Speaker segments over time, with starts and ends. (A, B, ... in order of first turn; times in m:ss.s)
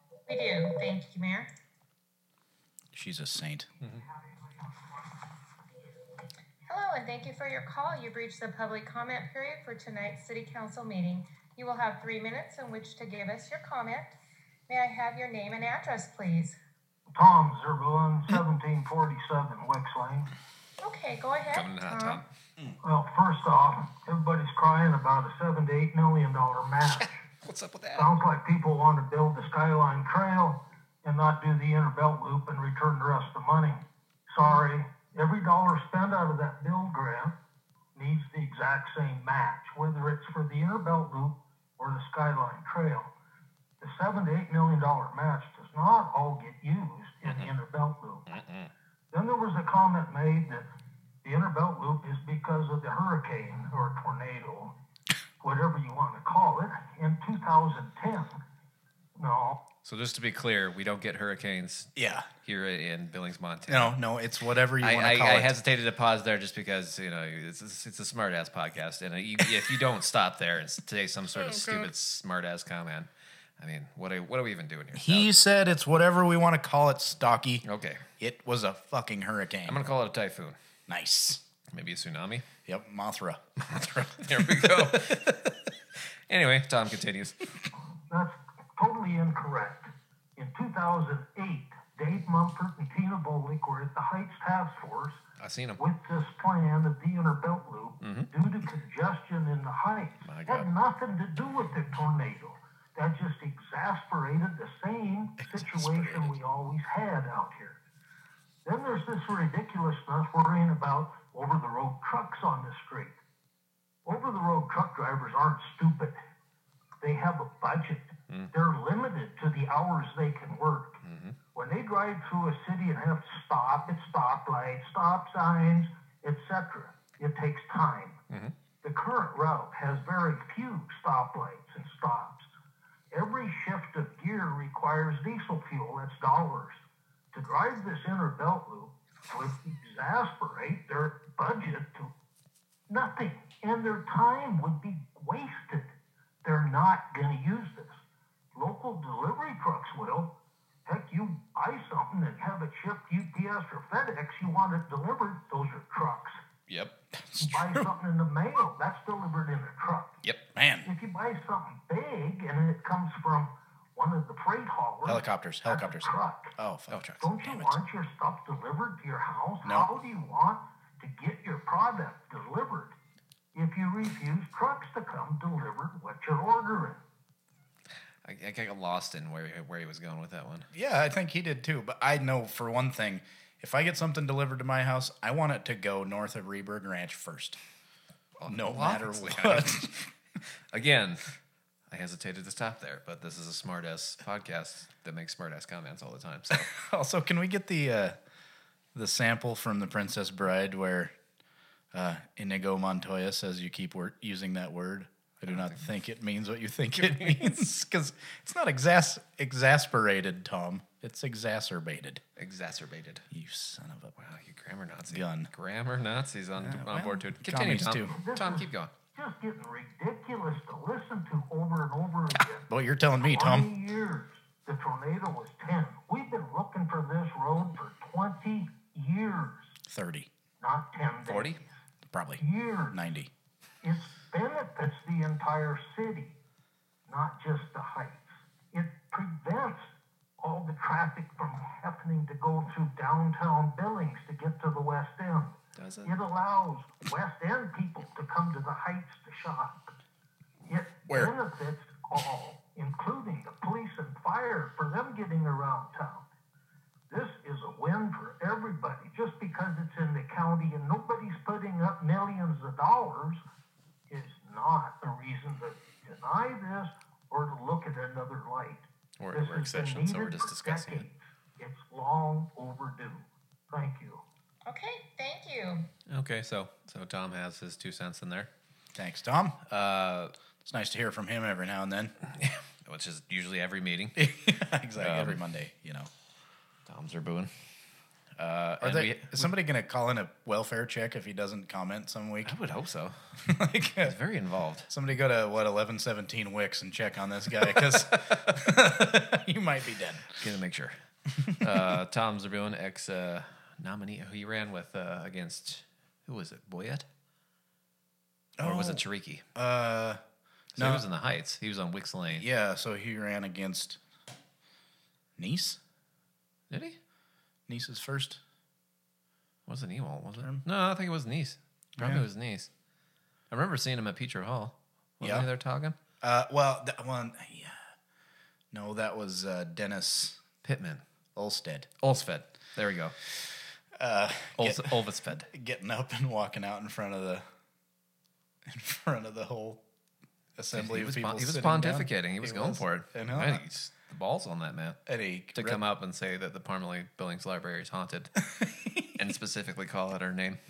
0:00.3-0:01.5 A
0:02.9-0:03.7 B
0:06.7-0:14.1 A
0:14.7-0:16.6 A
0:17.1-0:20.3 C
0:20.8-0:22.2 A
0:21.5-0:22.2 D
0:22.8-0:27.2 C
0:26.9-0:28.1 D
0:28.0-0:37.3 C
0:37.9-0:43.1 C
0:43.8-0:48.3 C
0:47.2-0:47.5 D
0:48.3-0:48.7 D
0:49.1-0:50.6 C
0:51.2-0:54.7 C
0:55.4-0:58.3 C
0:59.2-0:59.6 C
0:59.8-1:01.9 D
1:01.9-1:02.3 B
1:02.4-1:04.0 D
1:03.7-1:05.5 B
1:04.8-1:15.3 D
1:11.4-1:11.9 B
1:14.9-1:17.6 B
1:17.6-1:18.0 D
1:18.2-1:19.8 B
1:19.7-1:20.6 D
1:20.9-1:21.4 B
1:21.7-1:22.4 D
1:22.6-1:23.4 B
1:23.6-1:27.4 D
1:24.2-1:24.9 B
1:28.1-1:35.2 C
1:35.4-1:35.8 D
1:35.8-1:47.8 C
1:38.0-1:38.3 D
1:40.2-1:40.7 D
1:45.4-1:46.4 B
1:48.6-1:53.2 C
1:54.0-1:56.2 C
1:57.0-2:01.0 C
2:01.0-2:01.4 D
2:01.5-2:08.2 C
2:08.3-2:08.5 D
2:08.8-2:12.5 C
2:13.1-2:16.8 C
2:17.3-2:22.1 C
2:22.9-2:25.9 C
2:26.4-2:28.0 C
2:28.5-2:30.3 C
2:30.8-2:36.4 C
2:36.7-2:37.0 D
2:37.1-2:37.9 B
2:37.4-2:40.1 C
2:40.5-2:40.9 B
2:40.8-2:46.5 C
2:45.0-2:47.8 B
2:46.9-2:47.2 D
2:47.2-2:52.9 C
2:49.6-2:49.9 B
2:53.5-2:57.0 C
2:58.2-3:00.7 D
3:00.7-3:07.6 B
3:08.4-3:09.9 D
3:08.5-3:10.1 B
3:10.7-3:11.3 D
3:11.9-3:16.7 D
3:16.5-3:18.2 B
3:18.9-3:21.1 B
3:21.9-3:32.2 B
3:25.5-3:25.8 D
3:27.0-3:27.6 D
3:32.4-3:33.3 D
3:33.3-3:34.1 B
3:34.2-3:38.9 D
3:35.1-3:35.5 B
3:36.6-3:38.1 B
3:38.1-3:42.7 C
3:42.7-3:43.7 B
3:43.2-3:49.7 C
3:49.9-3:50.3 B
3:50.6-3:51.7 C
3:51.2-3:51.6 D
3:52.1-3:53.3 B
3:52.4-3:53.0 C
3:53.8-3:56.4 C
3:57.1-4:09.9 C
4:05.8-4:06.1 D
4:10.7-4:16.2 C
4:17.1-4:23.4 C
4:24.1-4:34.2 C
4:29.2-4:31.1 D
4:34.6-4:35.9 A
4:36.1-4:38.5 D
4:38.9-4:39.6 B
4:39.7-4:40.3 D
4:40.6-4:42.1 B
4:42.3-4:44.2 D
4:44.2-4:46.1 B
4:45.0-4:45.4 D
4:46.9-4:47.5 D
4:48.4-4:49.5 D
4:48.8-4:52.5 B
4:52.4-4:53.3 D
4:53.4-4:54.2 B
4:54.0-4:54.9 D
4:54.9-5:00.4 B
4:57.8-4:58.5 D
5:00.4-5:01.0 D
5:01.5-5:07.0 D
5:08.6-5:09.0 B
5:08.6-5:09.4 D
5:09.5-5:10.2 B
5:10.8-5:12.4 D
5:10.8-5:11.0 B
5:12.3-5:14.0 B
5:15.4-5:15.8 B
5:16.7-5:17.0 D
5:17.7-5:18.4 B
5:19.7-5:22.7 D
5:22.0-5:22.2 B
5:23.5-5:26.0 D
5:25.2-5:25.5 B
5:26.2-5:27.8 B
5:28.7-5:30.4 B
5:30.6-5:31.0 D
5:31.4-5:31.9 B
5:32.0-5:33.1 D
5:34.0-5:37.4 B
5:34.6-5:35.5 D
5:38.6-5:39.8 B
5:40.6-5:43.6 B
5:40.7-5:45.0 D
5:45.0-5:45.8 B
5:45.5-5:48.3 D
5:48.5-5:49.1 B
5:49.1-5:50.6 D